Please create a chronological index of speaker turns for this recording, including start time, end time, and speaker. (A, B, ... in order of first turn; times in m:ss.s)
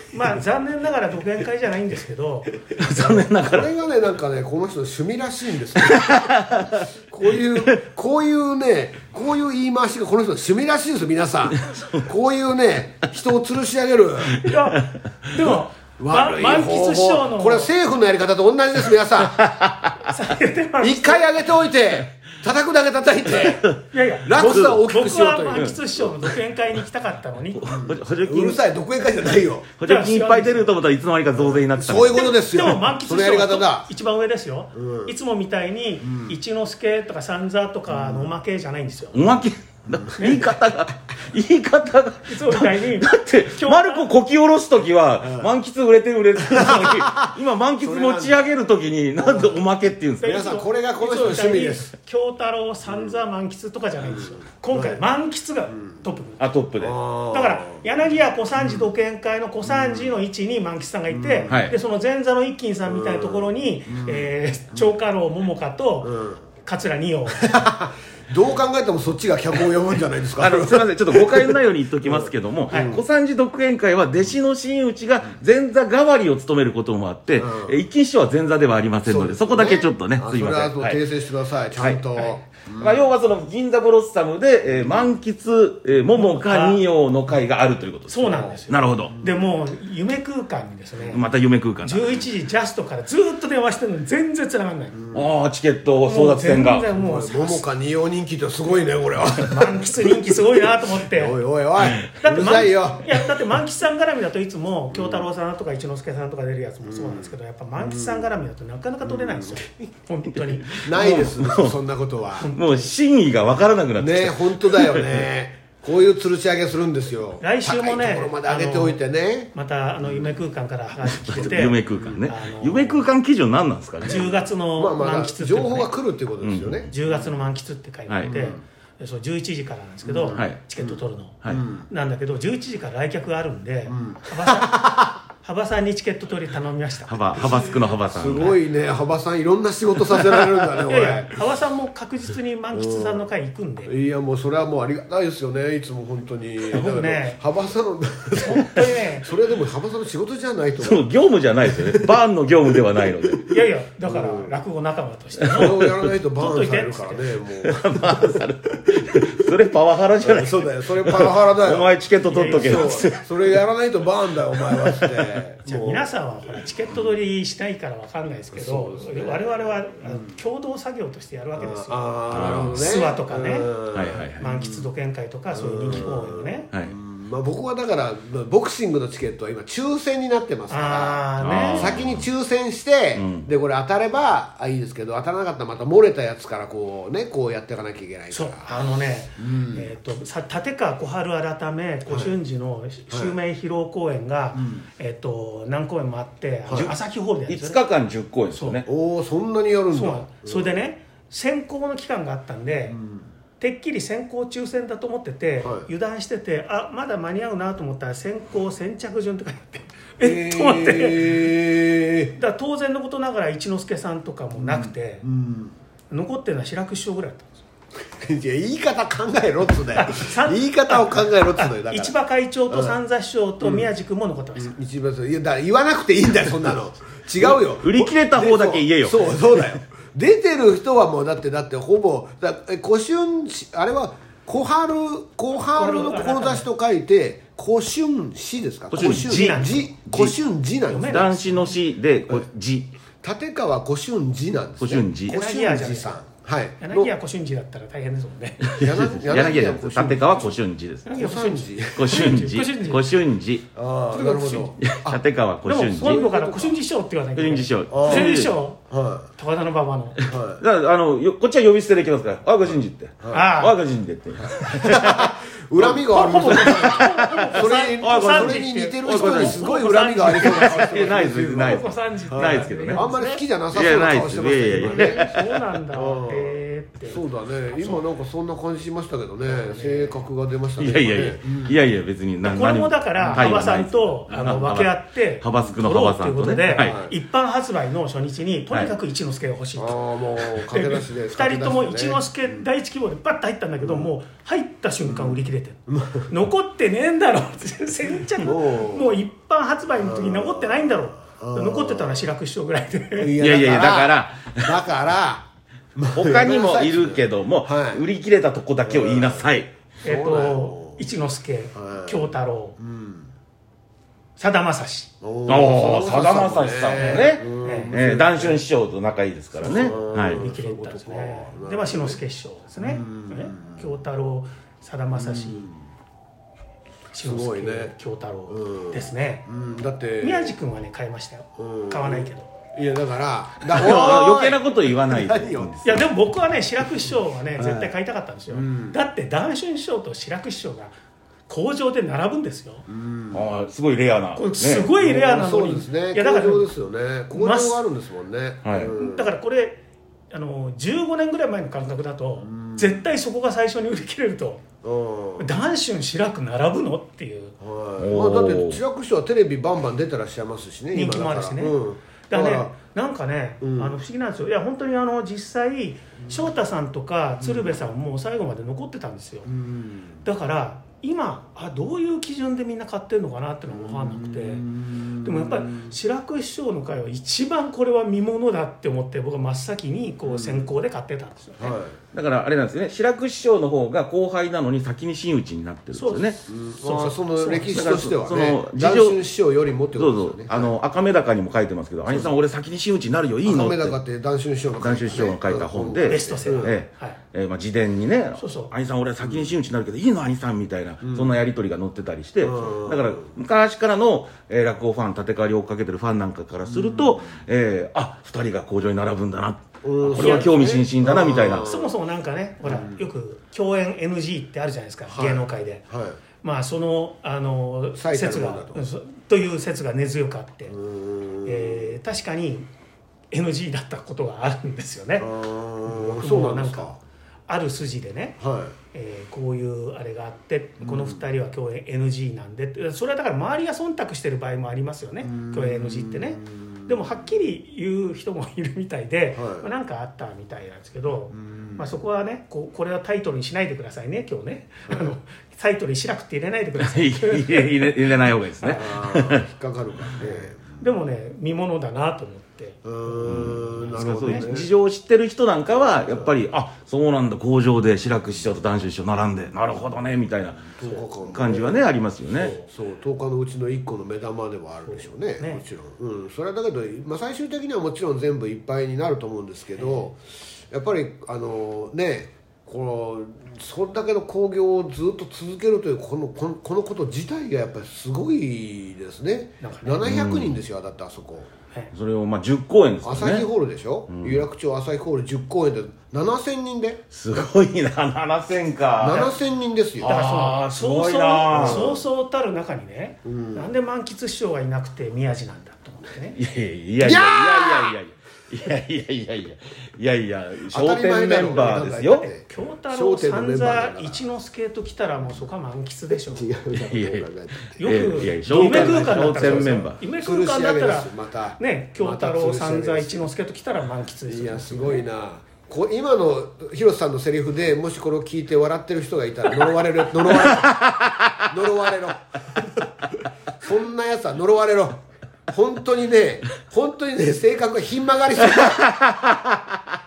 0:00.1-0:02.6 A
0:02.8-0:03.7 B
0:02.9-0:14.4 C
0:05.8-0:06.9 B
0:11.7-0:12.0 B
0:14.4-0:17.7 A
0:16.0-0:19.5 C
0:19.3-0:20.0 B
0:20.0-0:21.3 A
0:20.8-0:23.7 C
0:23.3-0:23.8 B
0:23.9-0:27.8 A
0:24.2-0:26.0 C
0:24.5-0:24.8 B
0:27.6-0:28.6 B
0:27.7-0:29.7 C
0:29.7-0:32.3 B
0:29.8-0:30.7 A
0:31.4-0:33.9 C
0:32.2-0:39.2 A
0:34.7-0:35.1 C
0:36.0-0:36.3 C
0:37.9-0:38.3 C
0:39.1-0:50.4 B
0:40.2-0:40.5 A
0:42.3-0:44.1 A
0:45.2-0:45.5 C
0:46.4-0:48.4 C
0:49.2-0:49.6 C
0:50.2-0:51.9 C
0:50.2-0:56.4 A
0:54.0-0:55.0 C
0:56.4-0:57.0 B
0:56.8-0:57.8 C
0:57.3-1:07.5 A
0:58.6-0:58.8 C
0:59.6-1:00.1 C
1:01.1-1:01.6 C
1:01.5-1:01.7 B
1:02.8-1:04.9 C
1:06.0-1:06.4 C
1:07.4-1:13.0 C
1:10.4-1:21.0 B
1:12.7-1:13.0 A
1:17.4-1:17.7 C
1:19.0-1:23.1 C
1:21.8-1:22.0 B
1:22.7-1:29.1 B
1:26.1-1:26.8 A
1:28.1-1:31.2 A
1:28.2-1:29.4 C
1:31.1-1:32.2 B
1:31.8-1:35.0 A
1:34.9-1:35.3 C
1:35.1-1:36.9 B
1:36.0-1:37.6 A
1:36.9-1:40.4 C
1:39.4-1:41.4 A
1:40.9-1:43.2 C
1:41.8-1:42.1 B
1:42.2-1:50.9 A
1:44.9-1:45.3 C
1:46.8-1:48.3 C
1:49.0-1:49.7 C
1:50.7-1:51.8 B
1:50.8-1:52.5 C
1:52.4-1:52.9 A
1:52.4-1:55.2 B
1:54.0-1:59.5 C
1:57.4-1:59.0 A
1:59.5-2:03.0 A
2:00.0-2:00.3 C
2:01.2-2:04.3 B
2:04.0-2:05.9 A
2:04.0-2:06.9 C
2:06.4-2:06.9 B
2:06.9-2:14.9 A
2:08.1-2:08.3 B
2:08.2-2:08.6 C
2:10.0-2:11.9 C
2:10.3-2:10.6 B
2:13.9-2:15.2 C
2:15.4-2:17.5 A
2:17.1-2:18.5 B
2:17.4-2:21.4 C
2:20.8-2:23.9 A
2:22.7-2:23.2 C
2:23.8-2:31.0 C
2:26.7-2:27.4 A
2:28.3-2:29.3 A
2:30.8-2:33.5 B
2:31.6-2:32.2 C
2:33.5-2:37.3 A
2:34.0-2:34.6 C
2:35.4-2:36.0 B
2:35.5-2:39.5 C
2:37.6-2:43.6 B
2:40.2-2:46.1 C
2:42.2-2:43.1 A
2:44.6-2:45.4 B
2:45.6-2:53.7 A
2:48.5-2:50.3 C
2:51.6-2:54.8 C
2:52.3-2:52.8 B
2:53.9-2:54.4 B
2:54.4-2:56.7 A
2:55.5-3:08.8 C
3:00.7-3:01.9 A
3:01.4-3:02.2 B
3:03.2-3:03.5 B
3:08.3-3:17.8 A
3:09.4-3:09.9 C
3:12.1-3:12.3 C
3:14.6-3:14.8 C
3:16.7-3:17.0 B
3:17.5-3:18.8 B
3:18.5-3:18.8 A
3:18.8-3:20.7 C
3:19.9-3:23.0 A
3:22.9-3:23.3 C
3:23.6-3:31.5 A
3:25.6-3:25.9 C
3:30.2-3:32.4 C
3:32.4-3:35.2 A
3:34.6-3:35.7 C
3:36.1-3:37.6 A
3:38.0-3:42.1 C
3:39.9-3:44.8 A
3:42.7-3:43.0 C
3:43.6-3:43.9 C
3:44.6-4:01.3 C
3:47.4-3:49.6 B
3:55.7-3:56.7 A
3:58.9-4:00.4 B
3:59.0-3:59.9 A
4:00.9-4:01.8 A
4:01.0-4:02.9 B
4:03.2-4:07.1 C
4:04.8-4:05.4 B
4:05.3-4:06.2 A
4:06.8-4:08.8 A
4:08.6-4:11.1 B
4:08.8-4:10.5 C
4:11.0-4:13.2 A
4:11.1-4:12.3 C
4:12.0-4:13.7 B
4:13.7-4:15.2 C
4:14.1-4:14.7 A
4:14.8-4:16.2 B
4:15.6-4:18.8 A
4:16.0-4:16.7 C
4:17.4-4:18.5 B
4:17.9-4:18.3 C
4:18.9-4:19.3 C
4:19.4-4:20.2 A
4:20.3-4:20.6 C
4:20.6-4:29.6 B
4:23.2-4:23.5 C
4:23.3-4:23.8 A
4:24.6-4:35.3 C
4:26.2-4:33.4 A
4:30.3-4:33.1 B
4:33.7-4:35.4 B
4:34.8-4:38.0 A
4:35.9-4:41.8 C
4:39.5-4:40.2 A
4:40.8-4:47.0 B
4:42.4-5:03.3 A
4:43.2-4:43.5 C
4:46.8-4:47.1 C
4:49.8-4:52.6 C
4:53.8-4:54.1 C
4:55.1-4:56.3 C
4:58.4-4:59.1 C
5:00.0-5:02.3 C
5:03.2-5:08.0 C
5:03.4-5:04.8 B
5:06.1-5:09.7 B
5:08.8-5:09.5 C
5:10.0-5:11.0 C
5:10.0-5:12.8 A
5:11.7-5:13.3 C
5:14.4-5:15.1 A
5:15.2-5:18.6 C
5:15.5-5:20.4 B
5:17.0-5:17.9 A
5:19.6-5:22.2 C
5:20.0-5:25.7 A
5:22.8-5:23.8 C
5:25.1-5:25.8 C
5:27.1-5:29.5 A
5:27.2-5:27.9 C
5:28.5-5:30.5 C
5:30.2-5:32.5 A
5:31.6-5:35.9 C
5:33.7-5:36.0 B
5:35.8-5:40.9 A
5:37.6-5:37.9 C
5:38.5-5:39.0 C
5:41.5-5:42.8 A
5:42.9-5:43.4 C
5:43.3-5:44.9 B
5:44.4-5:46.7 A
5:45.0-5:49.3 C
5:47.3-5:47.8 A
5:48.6-5:48.9 B
5:48.9-5:54.6 A
5:52.4-5:53.0 C
5:54.8-5:55.5 C
5:55.4-5:57.6 A
5:57.6-6:02.7 C
5:58.0-5:58.8 B
6:00.9-6:09.5 A
6:03.6-6:04.0 C
6:07.4-6:07.7 C
6:09.4-6:10.2 C
6:10.2-6:21.8 A
6:13.7-6:15.9 C
6:20.2-6:20.7 C
6:21.6-6:22.0 C
6:22.1-6:26.4 B
6:25.9-6:27.7 A
6:26.5-6:30.7 C
6:27.7-6:29.2 B
6:29.9-6:34.0 B
6:32.1-6:32.3 C
6:33.4-6:36.7 C
6:34.8-6:51.7 B
6:36.1-6:37.2 A
6:38.4-6:38.7 A
6:41.0-6:41.4 C
6:42.4-6:43.3 C
6:46.7-6:47.2 C
6:49.8-6:51.9 C
6:50.1-6:50.5 A
6:51.6-6:55.8 A
6:52.6-6:53.0 C
6:55.1-6:56.2 C
6:56.4-7:00.8 A
6:57.9-6:58.8 C
7:00.7-7:01.9 C
7:01.4-7:02.7 A
7:03.3-7:05.3 A
7:05.2-7:07.0 C
7:05.8-7:06.9 A
7:07.5-7:08.4 A
7:08.4-7:08.7 C
7:08.9-7:28.1 A
7:10.8-7:11.2 C
7:15.2-7:17.1 C
7:19.4-7:19.7 C
7:21.3-7:21.9 C
7:26.8-7:29.4 B
7:28.7-7:30.7 C
7:30.8-7:34.5 A
7:32.8-7:34.7 C
7:33.2-7:42.5 B
7:35.8-7:36.3 C
7:40.8-7:41.8 C
7:42.4-7:42.7 A
7:42.5-7:50.2 C
7:44.8-7:45.6 A
7:49.8-7:50.1 A
7:50.7-8:01.5 C
7:59.6-8:00.0 A
8:00.0-8:00.5 B
8:01.9-8:03.5 B
8:03.0-8:07.0 C
8:04.1-8:04.4 B
8:07.1-8:09.3 B
8:09.0-8:10.1 C
8:10.0-8:11.8 B
8:10.0-8:16.4 A
8:11.5-8:12.0 C
8:13.2-8:13.7 C
8:16.4-8:22.3 B
8:17.0-8:18.0 C
8:20.7-8:24.2 C
8:22.4-8:26.5 A
8:26.1-8:33.3 C
8:26.7-8:30.0 B
8:27.8-8:35.0 A
8:34.3-8:40.8 C
8:40.3-8:41.5 B
8:41.5-8:48.8 C
8:48.4-8:49.8 B